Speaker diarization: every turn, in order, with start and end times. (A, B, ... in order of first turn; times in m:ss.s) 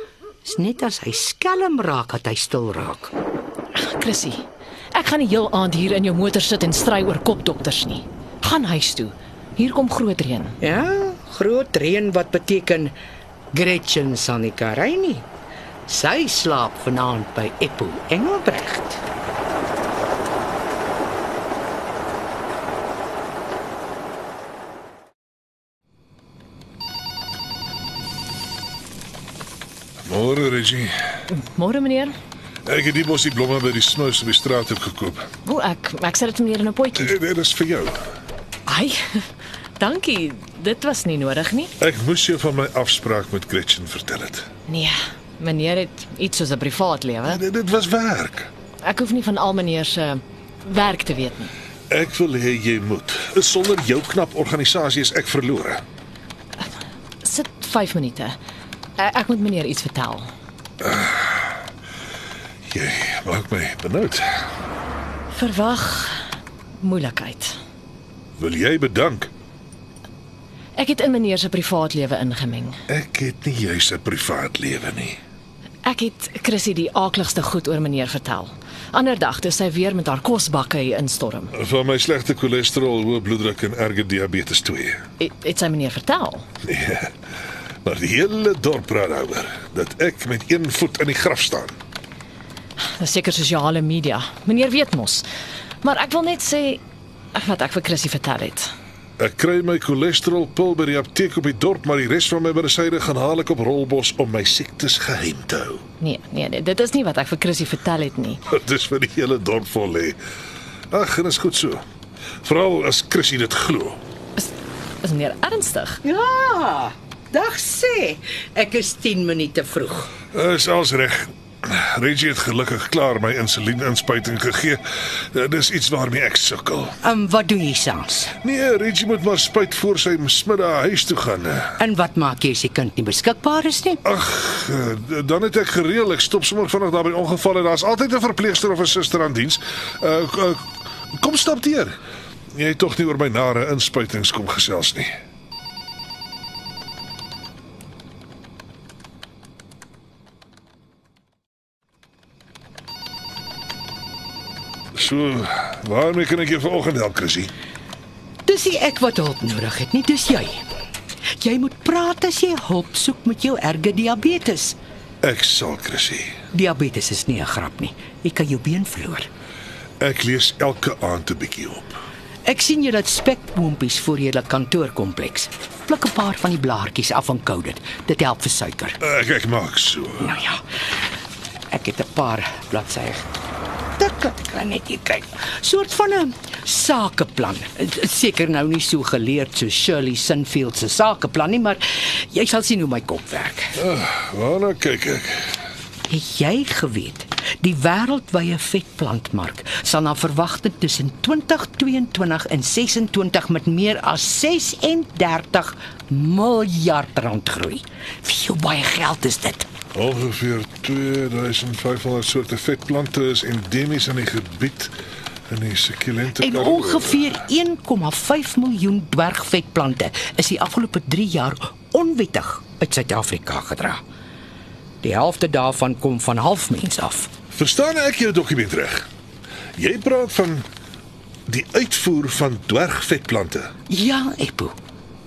0:00.4-0:03.1 A
0:03.8-0:10.6 B
0:10.6-0:13.0 A
0:13.5-0:15.3 A
0:15.9-0:19.0 A
0:30.1-0:30.9 C
0:31.3-0:32.1 B
0:32.7-0:35.3 C
0:35.4-0:37.2 B
0:37.0-0:38.0 C
0:38.7-0:39.0 B
0:39.8-0:41.7 B
0:41.8-0:44.5 C
0:44.7-0:47.4 B
0:47.3-0:48.5 C
0:48.8-0:51.5 B
0:51.9-0:55.8 C
0:57.2-0:58.4 B
0:59.0-1:00.3 B
1:00.8-1:01.4 C
1:02.7-1:04.2 C
1:05.3-1:06.2 B
1:06.8-1:07.6 B
1:08.4-1:09.3 C
1:10.8-1:12.8 B
1:12.9-1:15.2 C
1:15.8-1:21.5 B
1:21.6-1:25.0 C
1:25.2-1:26.5 B
1:26.6-1:27.1 C
1:27.8-1:31.8 C
1:33.0-1:35.3 B
1:35.8-1:36.8 B
1:37.3-1:38.7 B
1:39.2-1:45.8 C
1:46.0-1:48.4 B
1:48.5-1:50.2 C
1:50.9-1:51.8 C
1:52.4-1:54.0 C
1:55.0-1:56.0 B
1:56.0-2:00.1 A
2:00.3-2:04.8 C
2:05.3-2:06.9 C
2:07.0-2:08.3 A
2:08.4-2:11.8 C
2:11.8-2:14.0 A
2:14.0-2:22.0 C
2:22.5-2:25.1 C
2:35.0-2:37.5 C
2:38.5-2:40.7 A
2:41.4-2:44.8 A
2:45.2-2:46.4 C
2:46.5-2:49.3 A
2:50.0-2:51.9 C
2:52.4-2:59.0 A
2:59.0-3:00.3 C
3:00.2-3:00.6 A
3:01.7-3:03.2 A
3:04.0-3:13.7 A
3:13.8-3:15.4 C
3:16.1-3:29.7 A
3:30.0-3:34.9 C
3:35.5-3:37.3 C
3:36.4-3:44.0 A
3:45.0-3:47.3 A
3:47.5-3:49.0 C
3:49.8-3:50.6 C
3:51.5-3:53.7 C
3:53.9-3:54.8 A